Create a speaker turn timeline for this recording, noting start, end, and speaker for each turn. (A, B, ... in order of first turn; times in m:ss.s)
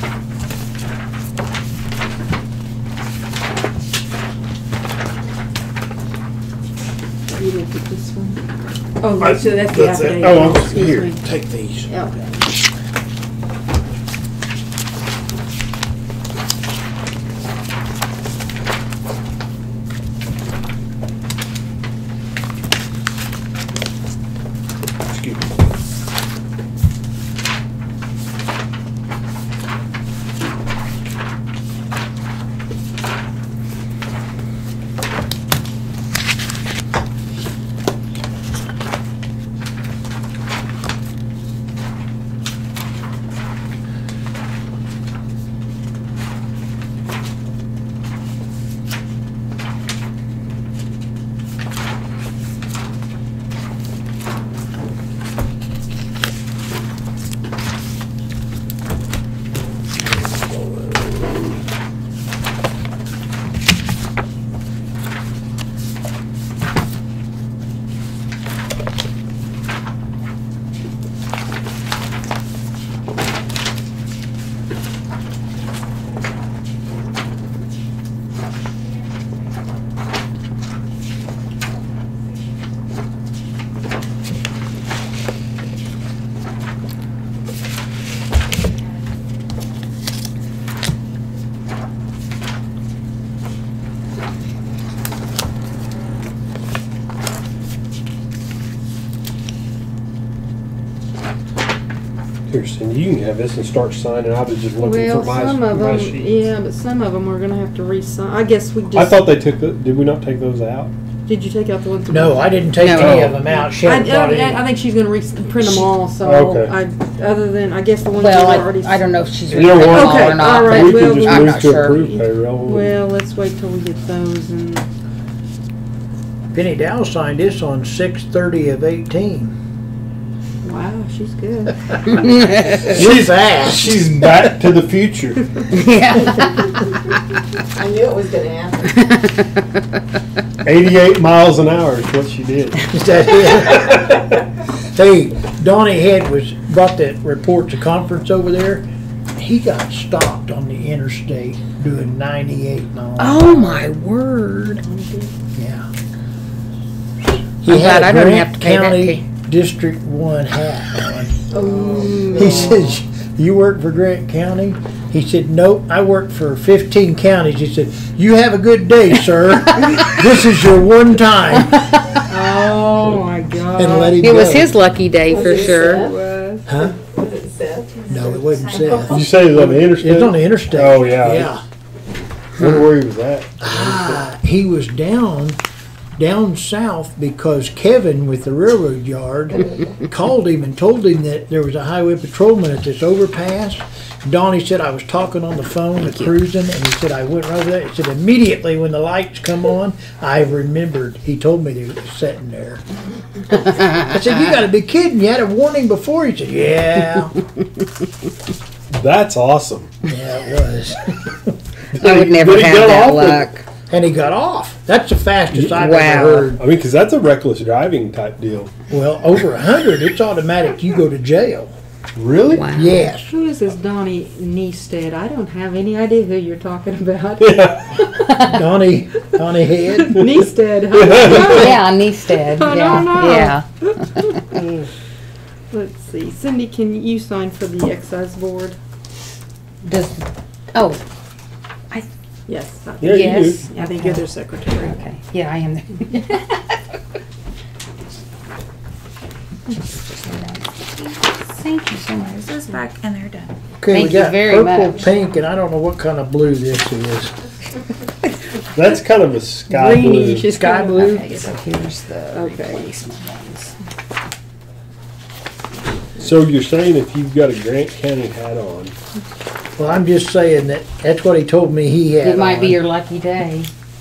0:07.3-0:08.4 A
0:09.0-0:11.2 A
0:09.2-0:11.4 B
0:09.8-0:10.7 C
0:11.9-0:12.5 A
1:42.5-1:46.5 B
1:44.8-1:49.4 A
1:48.9-1:50.9 B
1:51.3-1:52.8 A
1:52.1-1:54.6 D
1:52.8-1:53.4 E
1:53.0-1:53.4 B
1:53.5-1:59.1 A
1:55.8-1:56.8 B
1:58.2-2:02.1 E
1:59.5-2:03.0 B
1:59.8-2:04.9 A
2:06.5-2:09.6 D
2:10.6-2:12.3 A
2:11.9-2:14.6 D
2:12.2-2:12.9 E
2:12.8-2:15.6 B
2:15.7-2:16.8 E
2:17.8-2:19.0 C
2:19.0-2:19.5 E
2:20.6-2:22.9 B
2:22.9-2:24.4 D
2:23.6-2:24.4 B
2:24.9-2:33.9 D
2:33.2-2:34.8 E
2:34.8-2:35.3 A
2:35.6-2:35.9 D
2:37.6-2:41.4 D
2:37.7-2:39.2 E
2:41.5-2:42.8 A
2:41.5-2:42.8 C
2:42.3-2:51.9 D
2:52.3-2:54.2 A
2:53.8-2:54.8 D
2:54.2-2:56.1 E
2:55.2-2:56.2 C
2:55.5-2:56.7 A
2:56.7-2:57.0 D
2:56.9-2:58.5 C
2:58.0-2:58.6 F
2:58.1-3:01.6 D
2:59.0-3:01.5 B
3:02.6-3:04.1 B
3:03.6-3:05.6 D
3:06.2-3:22.8 D
3:23.7-3:27.4 D
3:28.9-3:29.9 B
3:30.0-3:31.6 D
3:31.9-3:33.5 B
3:32.0-3:33.6 E
3:33.9-3:36.6 D
3:35.5-3:35.8 B
3:35.8-3:36.5 E
3:36.5-3:38.7 B
3:38.9-3:41.7 D
3:42.2-3:42.7 B
3:42.5-3:43.0 E
3:42.7-3:43.3 D
3:43.3-3:48.1 A
3:47.4-3:48.0 B
3:48.3-3:50.3 D
3:49.9-3:51.8 A
3:50.9-3:51.7 B
3:51.2-3:54.2 E
3:52.4-3:54.3 A
3:54.5-3:54.8 B
3:55.7-3:58.8 A
3:59.8-4:01.0 E
4:02.5-4:05.0 A
4:03.0-4:03.6 B
4:03.0-4:06.8 E
4:09.7-4:12.3 E
4:11.6-4:13.5 F
4:13.8-4:17.3 D
4:13.9-4:15.1 E
4:18.7-4:20.5 B
4:19.7-4:21.2 A
4:20.5-4:21.3 D
4:20.5-4:23.7 E
4:22.3-4:23.0 A
4:26.2-4:28.9 B
4:29.8-4:32.8 D
4:32.2-4:33.7 E